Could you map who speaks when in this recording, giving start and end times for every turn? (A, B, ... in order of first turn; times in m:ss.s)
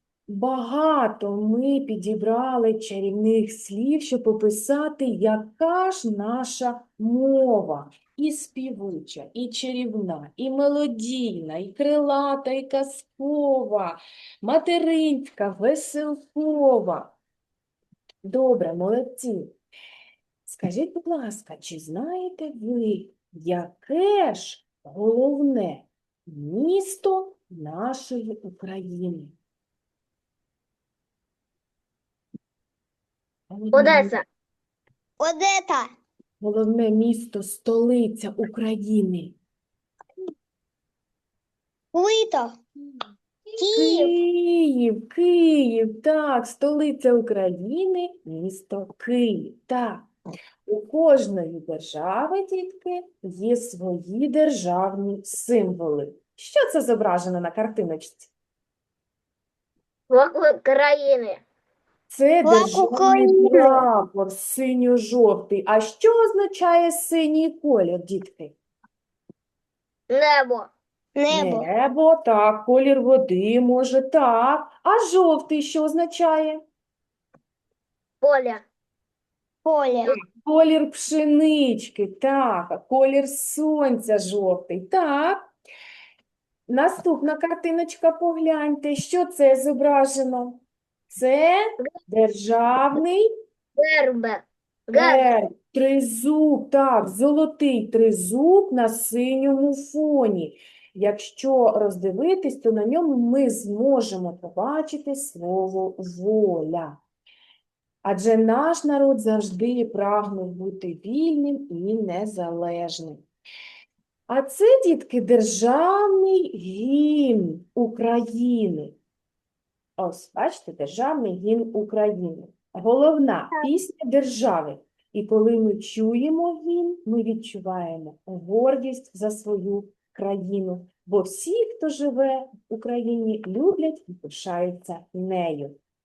0:00.3-0:17.1 A
0:18.2-0:19.5 A
0:20.5-0:29.3 A
0:33.5-0:34.1 A
0:33.7-0:34.2 B
0:35.2-0:35.9 C
0:36.4-0:39.4 A
0:41.9-0:42.6 C
0:43.5-0:50.1 A
0:43.6-0:44.2 C
0:50.6-0:58.3 A
1:00.1-1:01.4 B
1:02.1-1:08.5 A
1:02.4-1:03.8 C
1:10.1-1:10.7 B
1:11.2-1:11.7 C
1:11.3-1:16.6 A
1:18.2-1:18.6 B
1:19.6-1:20.1 C
1:20.1-1:25.5 A
1:26.7-1:33.2 A
1:33.8-1:35.3 B
1:34.9-1:47.0 A
1:48.0-1:53.2 A
1:54.3-1:59.0 A
2:00.0-2:15.8 A